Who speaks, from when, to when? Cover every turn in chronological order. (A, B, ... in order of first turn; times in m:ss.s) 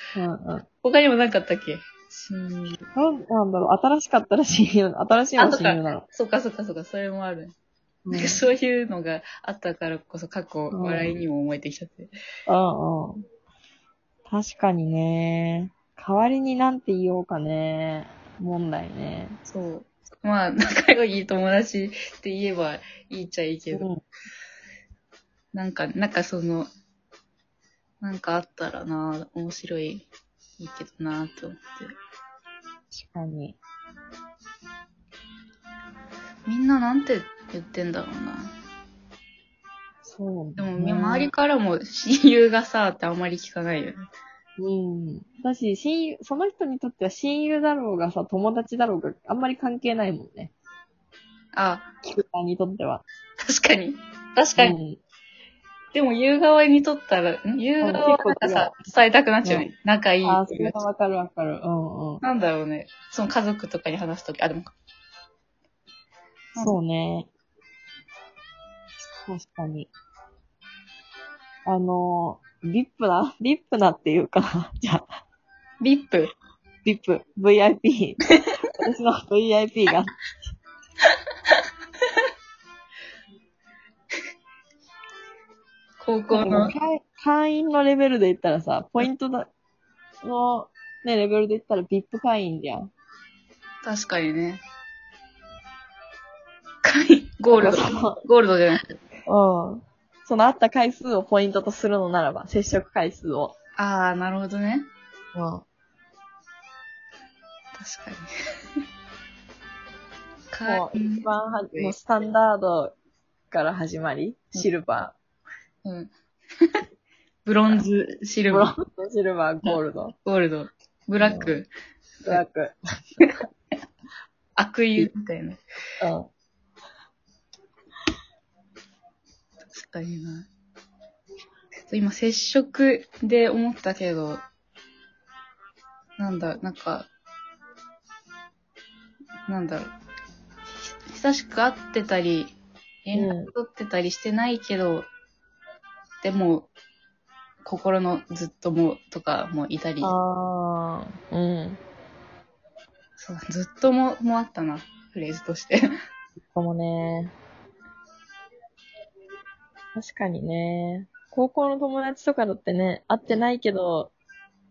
0:00.2-0:00.7 A
0:00.8-0:02.8 B
0:02.9-0:06.0 A
0:05.4-0:07.6 B
0:08.0-0:08.4 A
0:08.1-0:12.1 B
0:10.7-0:11.2 A
0:12.5-0:13.2 A
0:14.3-0:19.4 A
0:19.4-0:23.9 B
0:23.7-0:24.0 A
0:25.5-0:26.7 B
0:28.0-0:30.1 B
0:30.6-0:31.9 B
0:32.9-0:33.6 A
0:36.5-0:38.5 B
0:40.0-0:41.3 A
0:40.6-0:44.0 B
0:44.6-0:50.5 A
0:51.5-0:51.9 B
0:52.0-0:53.0 A
0:53.4-0:54.8 B
0:54.6-0:55.0 A
0:55.9-1:00.8 B
0:57.8-0:58.7 A
1:00.2-1:02.2 A
1:02.2-1:04.7 B
1:06.6-1:07.3 A
1:09.2-1:09.9 A
1:11.6-1:15.1 A
1:15.8-1:16.3 B
1:16.8-1:18.2 A
1:18.8-1:20.2 A
1:26.0-1:26.7 B
1:26.3-1:29.5 A
1:30.2-1:32.9 A
1:33.8-1:34.6 B
1:36.8-1:39.0 B
1:37.5-1:38.2 A
1:39.3-1:43.5 A
1:43.8-1:44.9 B
1:45.4-1:45.6 A
1:47.8-1:48.3 B
1:50.5-1:52.0 B
1:50.6-1:53.0 A
1:53.5-1:55.2 A
1:55.8-1:56.8 B
1:57.4-1:58.7 B
1:58.5-2:00.2 A
1:59.6-2:01.7 B
2:01.2-2:01.6 A
2:02.3-2:02.8 A
2:04.6-2:05.6 B
2:06.0-2:06.3 A
2:09.7-2:10.5 B
2:11.9-2:14.4 B
2:16.2-2:17.1 B
2:19.5-2:19.9 B
2:20.8-2:25.1 B
2:23.2-2:23.5 A
2:26.2-2:26.7 B
2:27.6-2:30.2 B
2:30.0-2:31.8 A
2:33.2-2:35.8 B
2:36.5-2:37.3 A
2:40.0-2:44.1 A